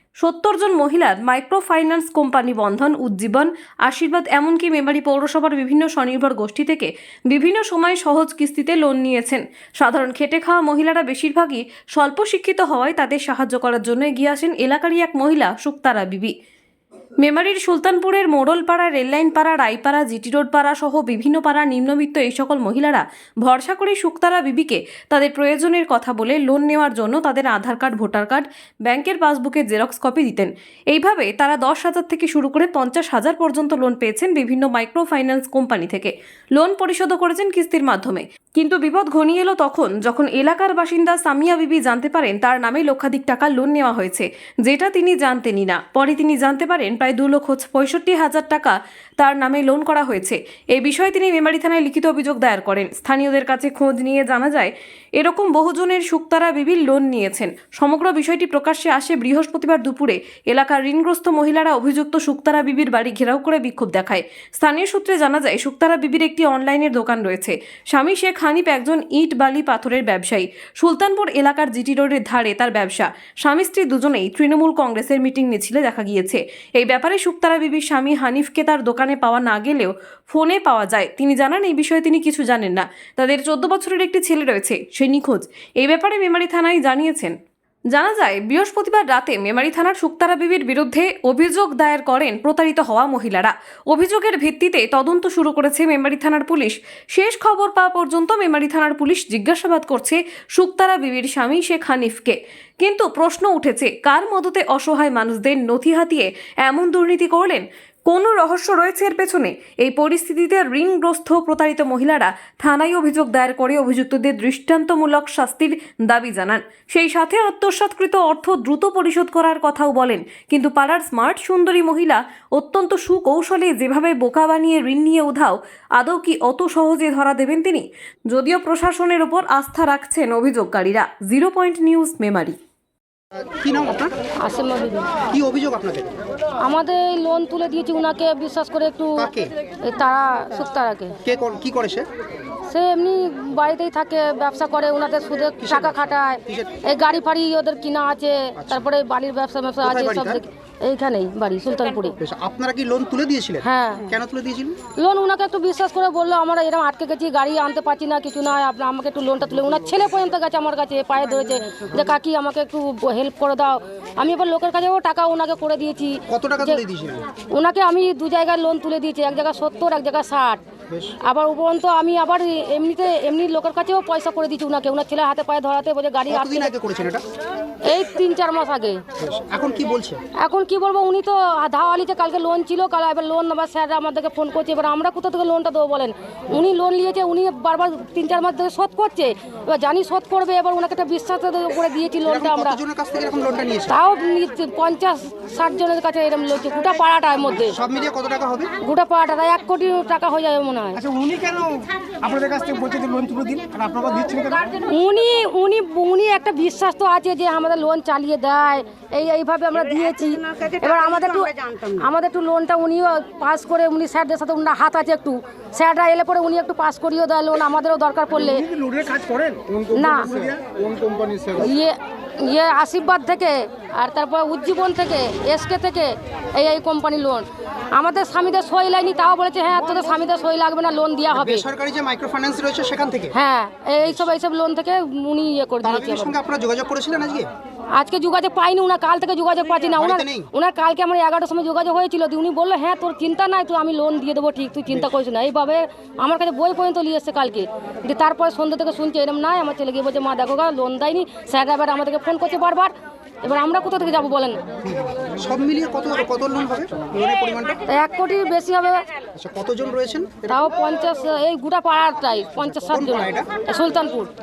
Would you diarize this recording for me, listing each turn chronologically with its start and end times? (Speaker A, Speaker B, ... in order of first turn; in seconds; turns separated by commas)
Speaker A: 0.2-16.3, Speaker A: 17.2-87.3, Speaker A: 87.9-132.6, Speaker B: 133.5-134.1, Speaker C: 134.4-135.1, Speaker B: 135.3-136.1, Speaker C: 136.6-139.3, Speaker B: 139.2-139.5, Speaker C: 139.8-141.2, Speaker B: 141.2-142.1, Speaker C: 142.7-152.2, Speaker B: 145.6-146.8, Speaker B: 148.6-148.9, Speaker B: 149.8-150.4, Speaker B: 152.2-154.8, Speaker C: 153.6-154.1, Speaker C: 155.0-166.8, Speaker B: 166.3-167.3, Speaker C: 167.5-170.6, Speaker B: 170.9-171.2, Speaker C: 171.2-176.7, Speaker B: 176.3-177.2, Speaker C: 177.8-179.0, Speaker B: 179.2-180.2, Speaker C: 180.4-192.8, Speaker B: 192.2-193.9, Speaker C: 193.9-197.8, Speaker B: 197.6-198.7, Speaker C: 198.8-201.0, Speaker D: 201.1-204.5, Speaker C: 204.8-218.7, Speaker D: 218.8-219.6, Speaker C: 219.9-220.5, Speaker B: 220.6-221.6, Speaker C: 221.6-231.7, Speaker B: 231.3-233.3, Speaker C: 233.3-236.4, Speaker B: 235.8-237.5, Speaker C: 237.9-254.6, Speaker B: 239.9-240.5, Speaker B: 254.8-257.8, Speaker C: 257.9-259.0, Speaker B: 259.4-260.6, Speaker C: 260.5-264.3, Speaker B: 262.8-263.5